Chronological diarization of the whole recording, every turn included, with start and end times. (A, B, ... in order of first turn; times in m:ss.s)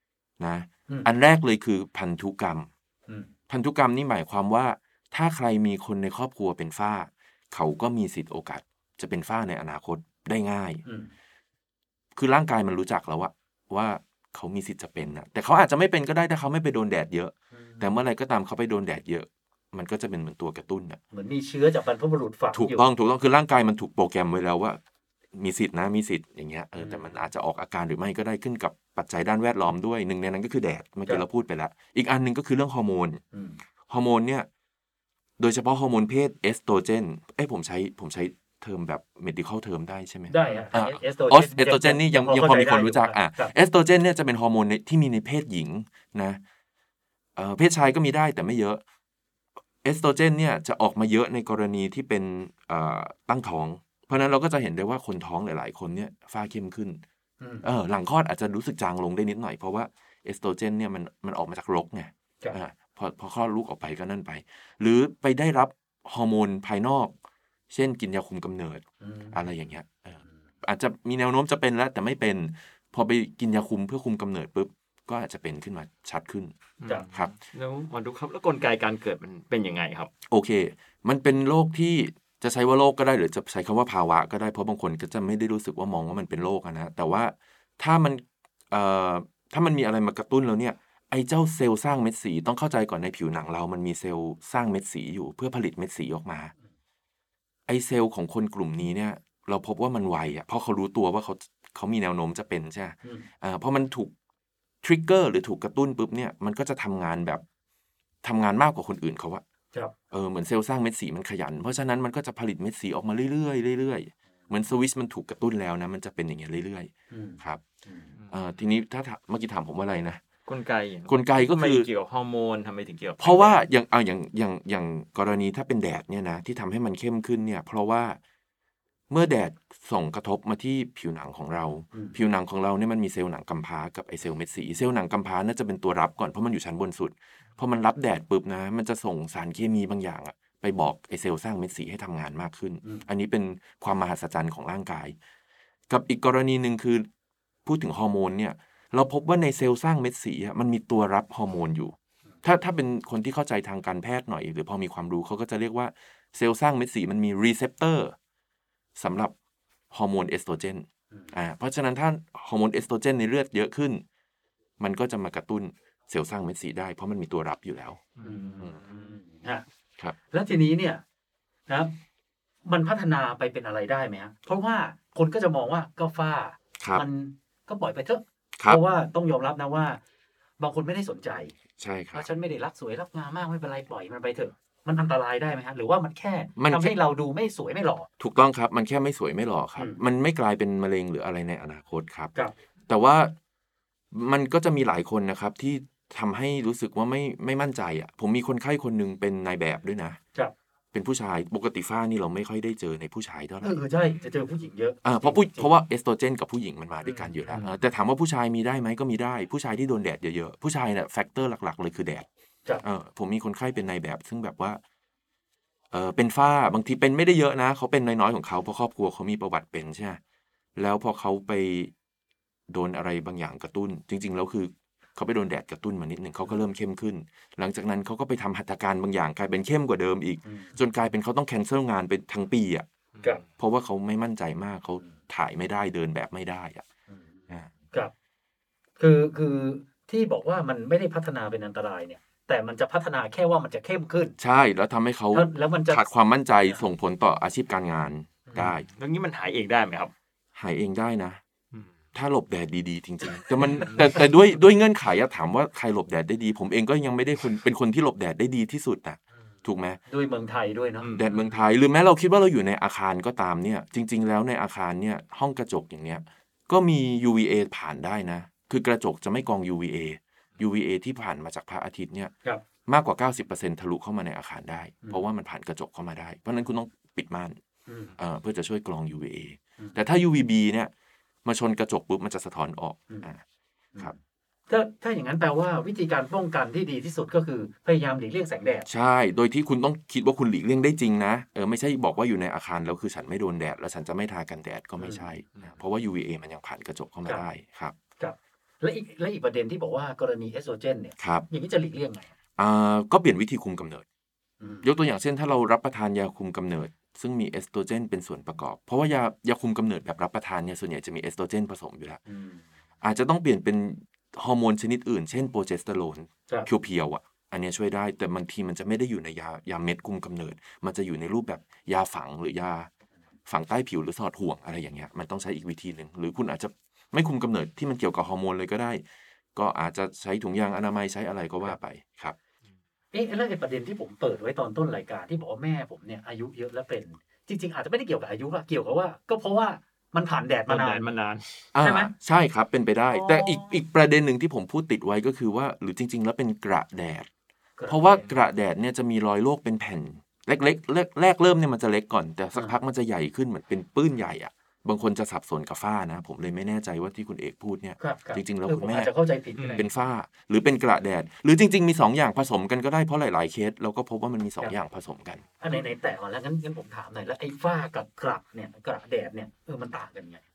0:00.4-0:02.7 A
0:03.5-0:10.8 A
0:10.8-0:11.1 B
0:12.2-0:21.0 A
0:17.5-0:18.0 B
0:21.1-0:22.8 B
0:22.5-0:24.8 A
0:25.3-0:33.2 A
0:26.8-0:27.2 B
0:33.3-0:33.6 B
0:33.9-0:34.5 A
0:35.4-0:46.4 A
0:40.3-0:43.5 B
0:47.4-0:48.8 A
0:49.8-0:57.0 A
0:57.4-0:57.7 B
0:57.6-1:07.2 A
1:07.7-1:16.5 A
1:09.0-1:09.5 B
1:16.8-1:20.1 C
1:20.3-1:36.5 A
1:37.7-1:44.1 A
1:44.8-1:47.4 A
1:48.2-1:49.4 A
1:50.1-1:57.6 A
1:57.1-1:58.2 B
1:58.3-2:00.2 A
2:00.5-2:03.6 C
2:01.1-2:01.9 A
2:03.2-2:08.2 A
2:09.1-2:25.2 A
2:25.9-2:27.1 A
2:27.6-2:38.2 A
2:39.0-2:39.4 A
2:39.9-2:44.0 A
2:44.8-2:48.0 A
2:48.2-2:48.7 C
2:48.2-2:49.6 B
2:50.3-2:51.0 B
2:51.7-2:52.0 B
2:52.7-3:00.0 B
2:56.8-2:57.0 A
3:00.6-3:01.5 B
3:01.8-3:02.3 A
3:02.1-3:08.1 B
3:06.6-3:07.0 A
3:08.2-3:12.3 A
3:12.9-3:13.4 A
3:14.1-3:20.2 A
3:20.9-3:23.8 A
3:23.6-3:25.7 B
3:25.0-3:32.3 A
3:27.0-3:27.4 B
3:32.8-3:34.8 A
3:35.9-3:40.2 A
3:40.8-3:41.9 A
3:42.7-3:52.9 A
3:50.4-3:50.8 B
3:53.2-3:53.4 C
3:53.6-3:56.8 A
3:57.1-3:58.1 B
3:59.0-4:04.4 B
4:04.4-4:08.9 A
4:05.3-4:06.0 B
4:08.5-4:08.8 B
4:08.9-4:10.1 C
4:10.6-4:11.4 A
4:12.1-4:20.0 A
4:13.8-4:14.2 C
4:20.1-4:21.1 B
4:21.0-4:21.5 C
4:21.2-4:32.3 A
4:32.9-4:37.6 A
4:37.9-4:38.2 B
4:38.2-4:40.9 A
4:41.4-4:43.4 A
4:44.7-4:48.9 B
4:48.9-4:58.0 A
4:55.0-4:55.3 B
4:58.2-5:02.3 B
5:01.2-5:01.5 A
5:02.6-5:04.0 A
5:04.6-5:04.9 B
5:04.8-5:12.2 A
5:12.3-5:12.6 B
5:13.0-5:22.9 A
5:23.5-5:29.0 A
5:29.6-5:32.4 A
5:33.1-5:41.1 B
5:40.7-5:41.7 C
5:41.7-5:47.3 A
5:41.8-5:42.1 B
5:43.1-5:43.8 B
5:47.8-5:48.2 B
5:47.9-5:59.1 A
5:58.0-5:59.9 B
5:59.6-5:59.9 C
5:59.7-6:05.4 A
6:05.6-6:10.4 B